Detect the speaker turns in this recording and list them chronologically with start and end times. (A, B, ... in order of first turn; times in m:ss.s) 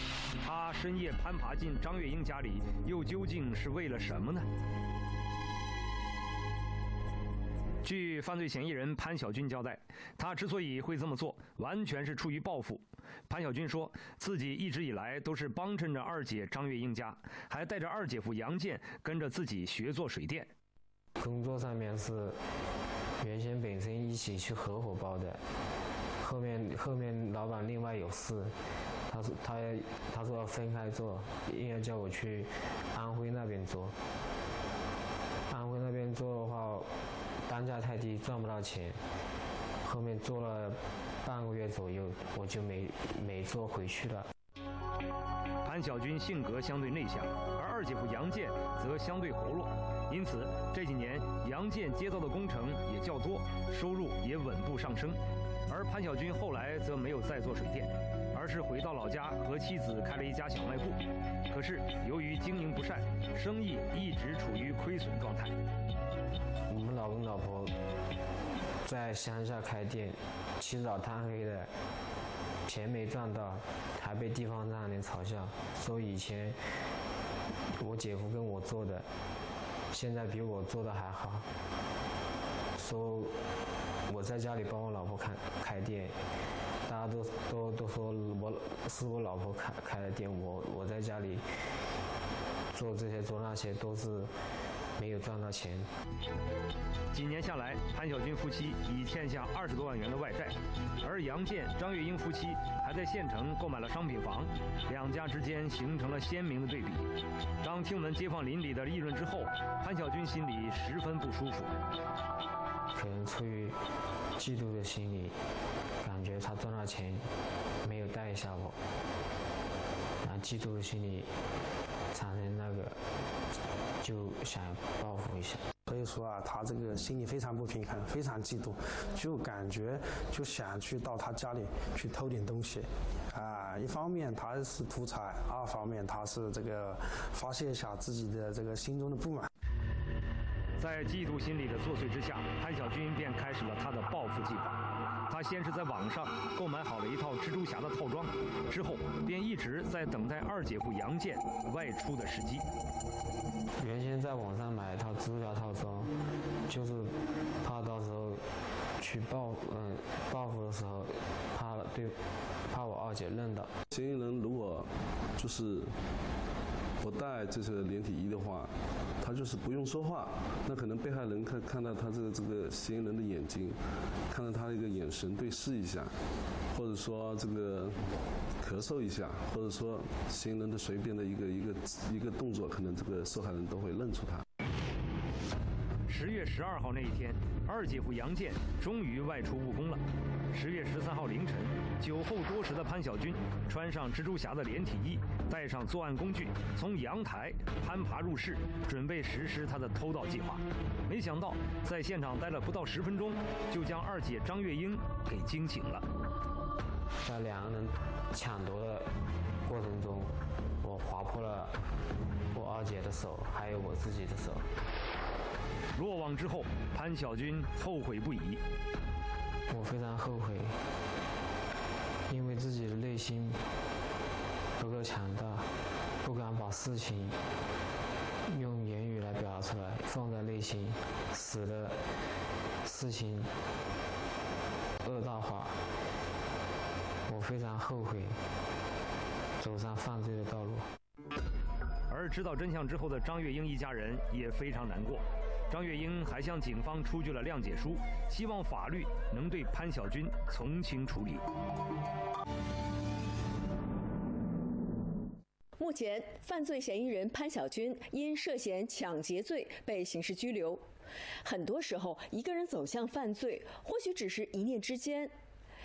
0:00.4-0:04.5 A
0:07.8-0:20.5 A
0:21.2-0:22.4 B
0:23.2-0:25.4 B
0:26.2-0:28.5 B
0:29.1-0:34.0 B
0:35.5-0:36.9 B
0:37.4-0:39.0 B
0:39.8-0:44.3 B
0:45.6-1:05.6 A
1:06.7-1:07.7 B
1:08.8-1:11.7 B
1:12.6-1:16.6 B
1:17.7-1:19.0 B
1:19.9-1:21.4 B
1:22.7-1:23.4 B
1:24.1-1:26.2 B
1:26.8-1:31.4 B
1:32.7-1:34.3 B
1:35.0-1:35.9 B
1:37.1-1:51.7 A
1:52.9-1:53.8 B
1:54.4-1:55.4 B
1:56.0-1:57.3 B
1:57.8-1:58.8 B
2:00.2-2:01.3 B
2:02.1-2:03.0 B
2:04.0-2:05.6 B
2:05.9-2:19.5 C
2:20.8-2:32.6 A
2:33.8-2:36.1 B
2:36.7-2:38.4 B
2:39.0-2:42.2 B
2:42.7-2:43.7 B
2:43.9-2:45.9 D
2:47.0-2:53.8 D
2:54.3-2:56.1 D
2:56.7-2:58.0 D
2:58.6-3:04.4 D
3:06.1-3:26.0 A
3:27.2-3:29.1 B
3:29.6-3:31.8 B
3:32.5-3:34.7 B
3:35.9-3:38.6 A
3:39.7-3:40.8 B
3:42.3-3:43.6 B
3:44.8-3:45.7 B
3:46.2-3:47.4 B
3:48.5-3:52.0 B
3:52.8-3:53.5 B
3:55.0-3:55.8 B
3:57.3-3:58.4 B
3:59.6-4:00.9 B
4:02.1-4:11.4 A
4:15.8-4:20.8 E
4:21.4-4:25.3 E